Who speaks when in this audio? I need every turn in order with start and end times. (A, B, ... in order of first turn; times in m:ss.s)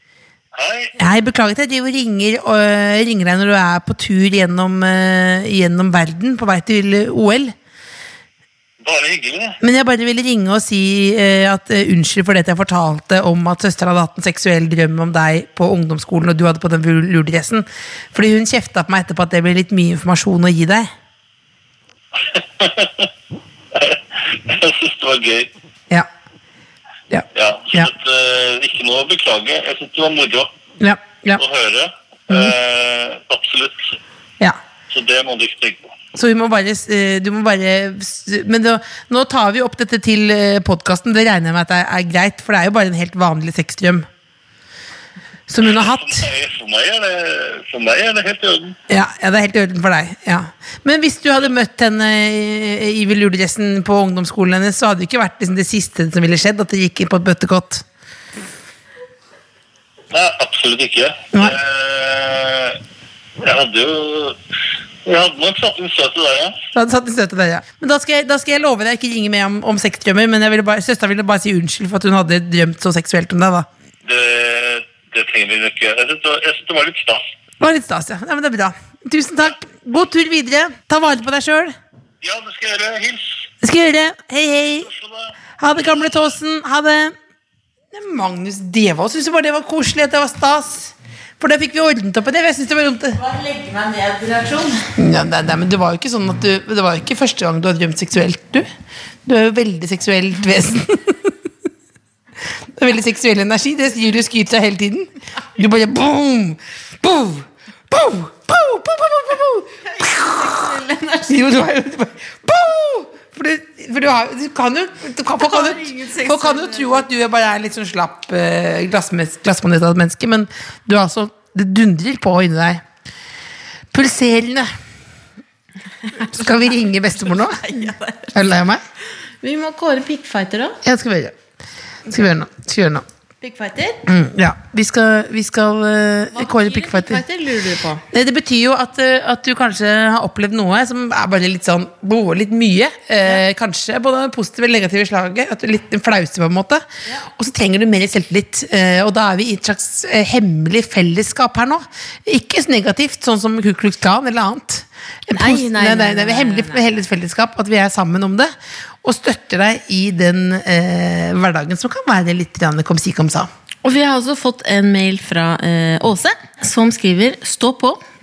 0:00.5-0:00.9 A
0:01.0-0:07.5 B
0:08.8-0:09.6 A
0:09.6-0:20.9 B
0:22.2-0:23.1 A
0:23.7-0:25.5 A
0:27.1-0:27.9 B
0:27.3-0:30.5 A
0:30.8-0:31.4 B
0:31.3-0:34.0 A
0:34.9-0:35.9 A
0:36.1-0:44.1 B
0:45.5-0:46.3 B
0:45.7-0:48.8 A
0:48.9-0:57.8 B
1:00.1-1:02.8 A
1:03.4-1:04.4 A
1:05.0-1:06.5 A
1:06.7-1:13.7 B
1:14.0-1:17.2 A
1:17.6-1:21.7 B
1:22.2-1:23.4 A
1:23.6-1:24.9 B
1:24.7-1:25.4 A
1:25.6-1:27.1 B
1:27.9-1:33.2 B
1:33.1-1:34.9 C
1:35.0-1:38.6 B
1:39.2-1:41.3 B
1:42.7-1:50.6 B
1:49.9-1:51.4 C
1:51.3-2:02.8 B
1:55.4-1:57.0 C
2:03.9-2:04.7 B
2:06.1-2:07.7 B
2:06.1-2:06.4 C
2:07.3-2:08.4 C
2:08.3-2:08.8 B
2:09.4-2:10.8 C
2:10.8-2:11.3 B
2:12.1-2:13.0 B
2:13.4-2:14.0 C
2:14.0-2:17.2 B
2:16.3-2:18.0 C
2:18.1-2:43.5 B
2:35.3-2:36.8 C
2:43.8-2:48.0 C